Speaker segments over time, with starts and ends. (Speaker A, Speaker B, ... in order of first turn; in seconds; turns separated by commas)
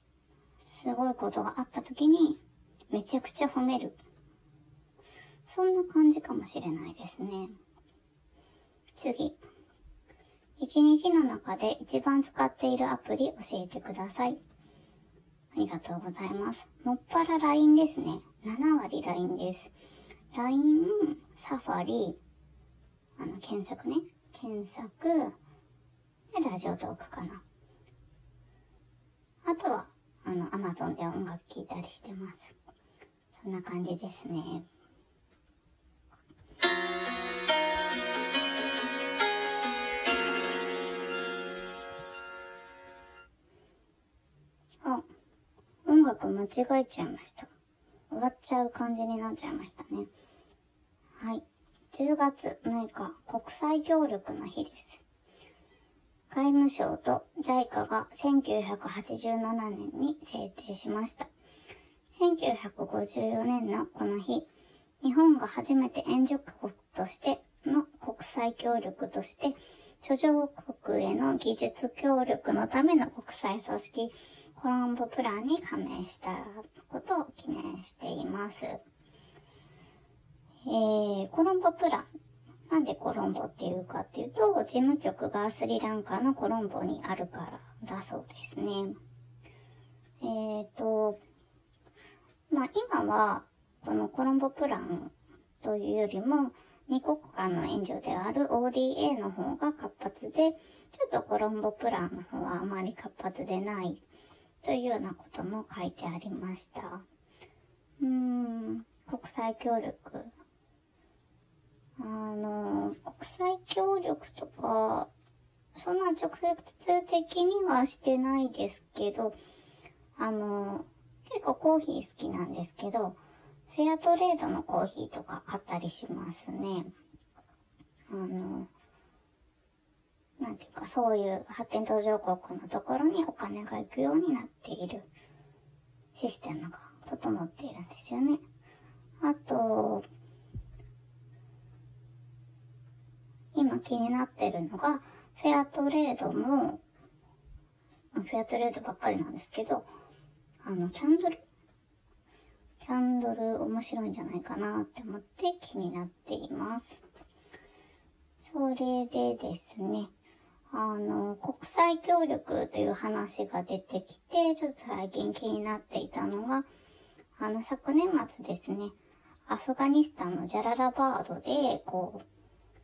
Speaker A: 0.6-4.0, Speaker A: 5.5-7.5, Speaker A: 9.0-9.4, Speaker A: 10.6-14.4, Speaker A: 15.5-19.7, Speaker A: 20.3-22.2, Speaker A: 23.2-25.4, Speaker A: 26.3-27.4, Speaker A: 29.4-32.5, Speaker A: 33.3-34.7, Speaker A: 45.9-47.5, Speaker A: 48.1-50.1, Speaker A: 51.2-55.0, Speaker A: 56.3-61.3, Speaker A: 62.1-64.5, Speaker A: 65.0-78.8, Speaker A: 80.7-82.1, Speaker A: 82.7-89.0, Speaker A: 90.2-91.2, Speaker A: 92.5-104.0, Speaker A: 104.6-107.0, Speaker A: 108.0-110.3, Speaker A: 112.0-115.1, Speaker A: 115.8-119.4, Speaker A: 120.2-123.2, Speaker A: 123.7-126.9, Speaker A: 128.1-128.7, Speaker A: 130.4-135.1, Speaker A: 136.2-138.4, Speaker A: 139.2-140.1, Speaker A: 143.5-146.8, Speaker A: 148.1-149.9, Speaker A: 150.6-151.4, Speaker A: 152.8-157.0, Speaker A: 158.4-160.1, Speaker A: 160.7-166.7, Speaker A: 167.4-168.9, Speaker A: 169.5-172.2